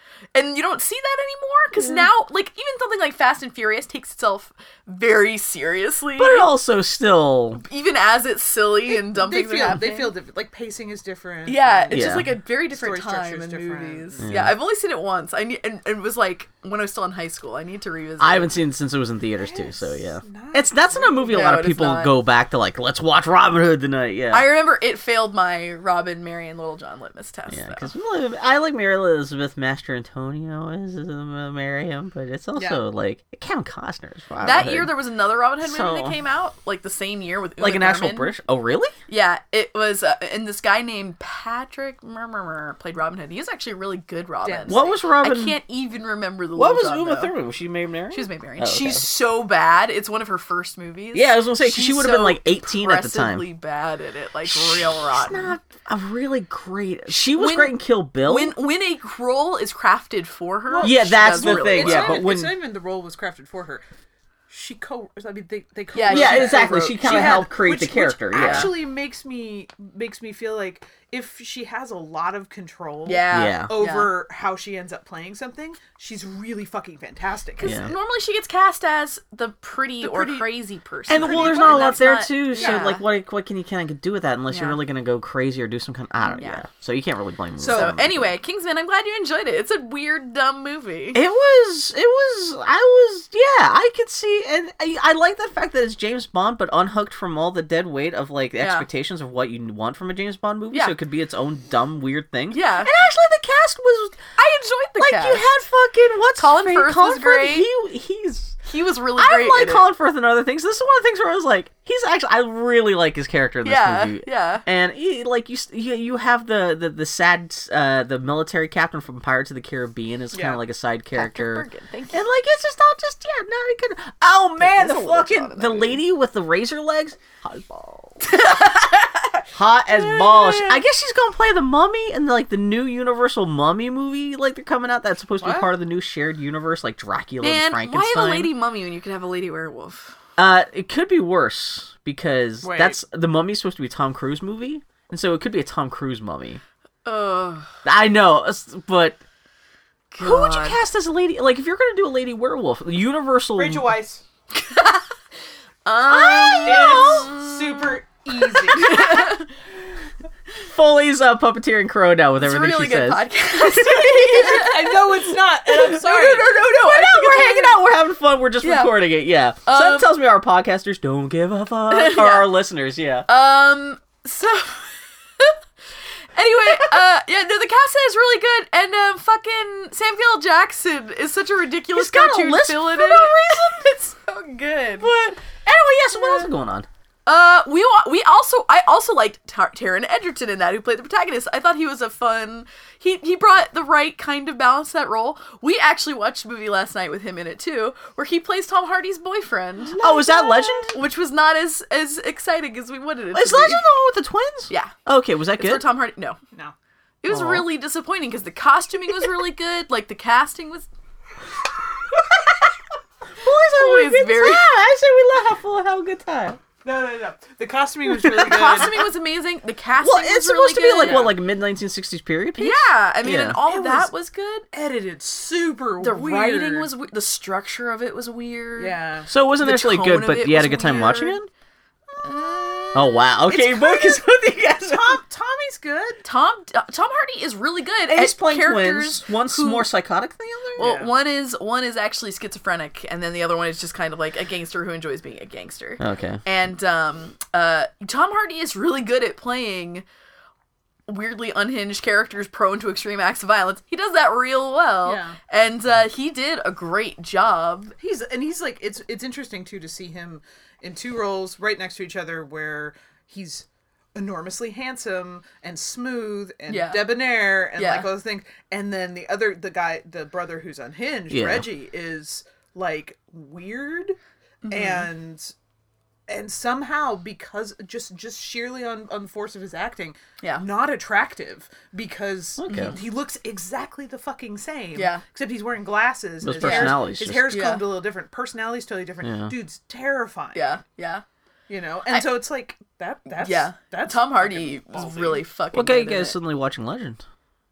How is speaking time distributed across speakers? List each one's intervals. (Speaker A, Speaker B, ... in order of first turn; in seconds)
Speaker A: 0.3-6.5, 7.5-10.1, 11.4-18.5, 21.2-22.1, 24.3-27.9, 34.4-38.3, 39.1-47.3, 48.1-55.5, 57.1-62.2, 65.9-67.4, 68.3-68.7, 73.0-74.1, 77.6-83.0, 84.5-84.8, 86.2-86.6, 87.7-91.2, 98.6-98.8, 102.5-102.9, 104.4-105.6, 106.4-107.7, 108.6-109.9, 113.6-114.6, 121.1-122.2, 124.6-126.0, 128.2-130.8, 137.4-140.1, 147.0-147.7, 150.1-150.8, 154.5-155.1, 155.8-159.5, 162.4-167.8, 168.6-168.9, 169.6-170.1, 171.9-172.5, 173.3-175.6, 176.3-185.1, 186.1-186.5, 187.2-203.9, 204.7-204.9, 205.6-206.4, 207.2-210.9, 213.6-214.7, 218.4-221.3, 222.6-224.7, 226.0-229.0, 229.6-231.4, 232.2-232.8, 236.2-239.9, 240.8-250.0, 251.1-257.9, 266.7-267.1, 267.8-268.1, 274.6-275.1, 282.7-283.0, 284.9-285.2, 286.6-287.8, 290.5-291.2, 293.3-296.4
Speaker B: 6.2-7.6, 11.9-12.3, 14.2-14.6, 18.2-24.5, 27.5-35.0, 35.6-36.2, 37.6-38.9, 44.7-45.6, 46.5-49.1, 51.1-53.5, 54.5-58.5, 60.8-62.5, 66.1-68.7, 73.3-73.8, 77.6-77.9, 81.1-88.3, 91.1-104.2, 105.0-108.6, 109.2-128.3, 129.5-138.5, 140.4-146.6, 147.8-149.2, 150.2-153.9, 156.1-157.3, 160.6-165.0, 165.7-173.3, 181.9-183.9, 185.0-186.9, 200.0-201.0, 203.3-205.8, 207.3-207.7, 213.4-216.6, 218.2-218.8, 220.0-223.6, 229.3-231.5, 232.9-235.2, 238.1-240.9, 246.0-246.4, 271.3-271.6, 282.6-282.9, 286.4-287.5, 289.2-289.5, 295.7-297.2
Speaker C: 8.9-14.2, 19.4-21.3, 32.5-32.8, 44.4-45.0, 60.7-63.8, 64.5-77.8, 80.0-80.5, 81.1-82.9, 87.6-88.1, 120.3-120.6, 135.4-135.7, 142.6-143.0, 153.6-154.2, 156.6-159.3, 164.3-166.6, 200.0-200.8, 216.8-219.1, 221.0-221.3, 223.7-224.1, 224.7-226.9, 228.8-229.3, 232.1-234.2, 234.8-236.2, 240.8-241.1, 255.0-255.3, 258.0-274.2, 274.7-275.5, 276.3-290.7, 291.7-295.4